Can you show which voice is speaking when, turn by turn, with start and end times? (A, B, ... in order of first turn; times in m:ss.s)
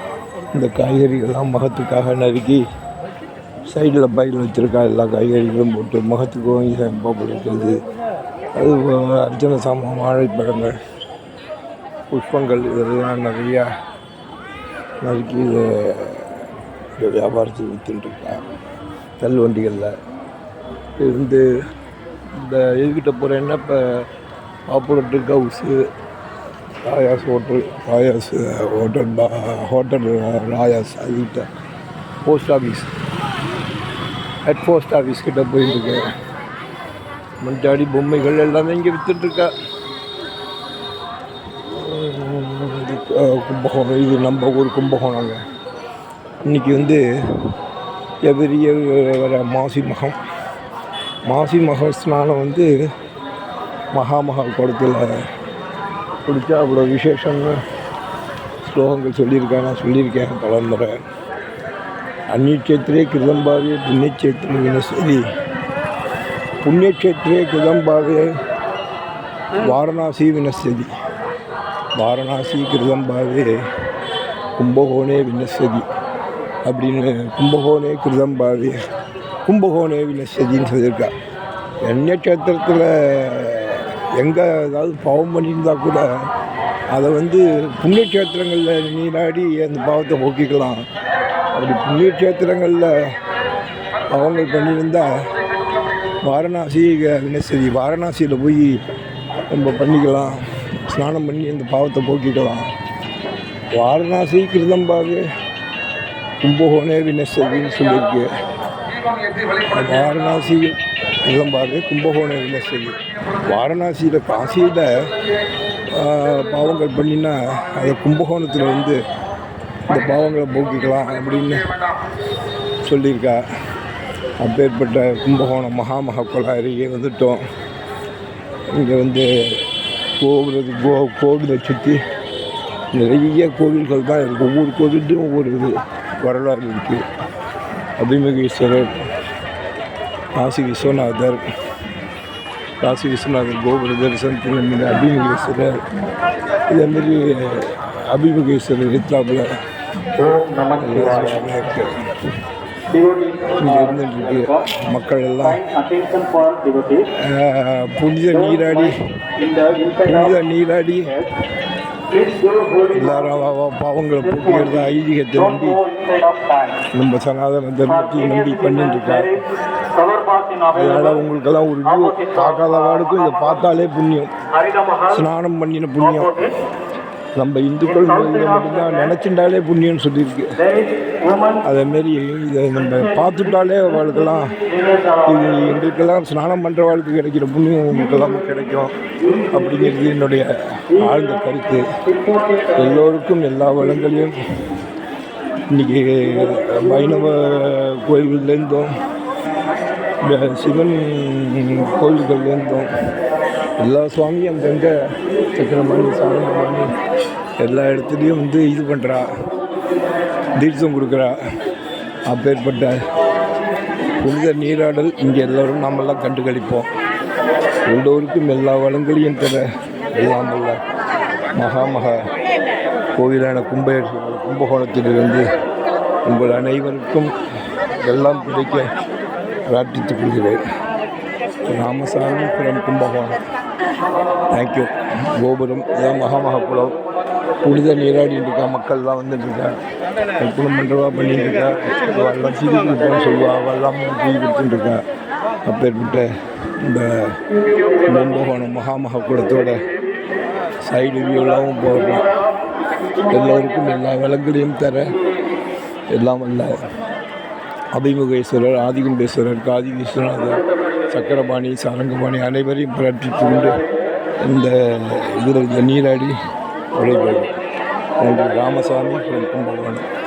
0:00.5-0:02.6 A
0:03.7-0:07.8 A
0:08.6-0:10.7 A
0:12.1-0:13.6 A
0:15.0-0:16.4 A
0:17.0-0:18.4 A
0:19.2-0:20.0 A
0:21.0-0:21.4 A
0:22.4-0:24.0 A
0:24.7-0:25.8 A
0:26.8-0:31.5 A
0:32.2-0:32.9 A
0:34.4-0:36.0 A
0:37.4-0:39.5 A
0:41.8-0:45.4 A
0:46.4-0:47.0 A
0:48.2-0:50.2 A
0:51.3-0:52.7 A
0:53.9-0:55.0 A
0:56.2-0:57.6 A
0:58.6-1:01.0 A
1:02.3-1:05.2 A
1:06.6-1:08.3 A
1:09.6-1:10.9 A
1:12.0-1:13.6 A
1:14.6-1:15.8 A
1:16.6-1:18.8 A
1:19.4-1:21.1 A
1:21.8-1:26.1 A
1:26.9-1:30.8 A
1:31.6-1:32.9 A
1:34.1-1:35.1 A
1:36.2-1:38.7 A
1:39.5-1:42.6 A
1:43.7-1:45.2 A
1:46.4-1:48.3 A
1:49.6-1:50.7 A
1:51.3-1:55.0 A
1:55.9-1:59.0 A
1:59.9-2:01.7 A
2:02.8-2:03.4 A
2:04.4-2:07.4 A
2:08.7-2:09.6 A
2:10.2-2:12.0 A
2:12.9-2:17.0 A
2:18.0-2:18.9 A
2:20.4-2:21.4 A
2:22.8-2:25.8 A
2:26.7-2:29.4 A
2:30.2-2:31.4 B
2:30.8-2:32.0 A
2:32.9-2:34.6 B
2:33.6-2:35.6 A
2:35.4-2:37.1 B
2:37.2-2:38.9 A
2:38.3-2:40.3 B
2:40.1-2:41.1 A
2:41.0-2:41.3 B
2:42.1-2:43.3 B
2:42.9-2:45.8 A
2:44.2-2:46.8 B
2:46.9-2:49.3 A
2:47.9-2:49.3 B
2:49.8-2:51.2 B
2:50.7-2:54.3 A
2:51.8-2:53.6 B
2:54.5-2:55.2 B
2:55.1-2:56.5 A
2:56.0-2:56.5 B
2:57.4-3:00.6 A
2:57.8-2:59.1 B
3:00.6-3:01.6 B
3:01.6-3:04.5 A
3:02.8-3:05.7 B
3:05.3-3:08.9 A
3:09.2-3:09.9 B
3:09.5-3:11.9 A
3:11.0-3:11.4 B
3:12.0-3:13.0 B
3:12.8-3:14.3 A
3:15.7-3:18.9 A
3:20.2-3:22.9 A
3:23.8-3:24.9 A
3:25.5-3:26.9 A
3:27.6-3:29.3 A
3:30.6-3:31.3 A
3:32.3-3:33.0 A
3:34.2-3:36.9 A
3:37.9-3:39.6 A
3:40.1-3:40.8 A
3:41.6-3:42.1 A
3:43.2-3:45.4 A
3:46.2-3:47.3 A
3:48.0-3:48.9 A
3:49.7-3:50.6 A
3:51.7-3:53.4 A
3:54.5-3:56.9 A
3:57.6-3:59.7 A
4:00.4-4:05.0 A
4:05.7-4:06.3 A
4:06.8-4:07.4 A
4:08.0-4:09.8 A
4:10.8-4:12.2 A
4:13.3-4:15.1 A
4:16.1-4:16.7 A
4:17.9-4:23.8 A
4:24.4-4:26.3 A
4:26.9-4:27.5 A
4:28.2-4:30.0 A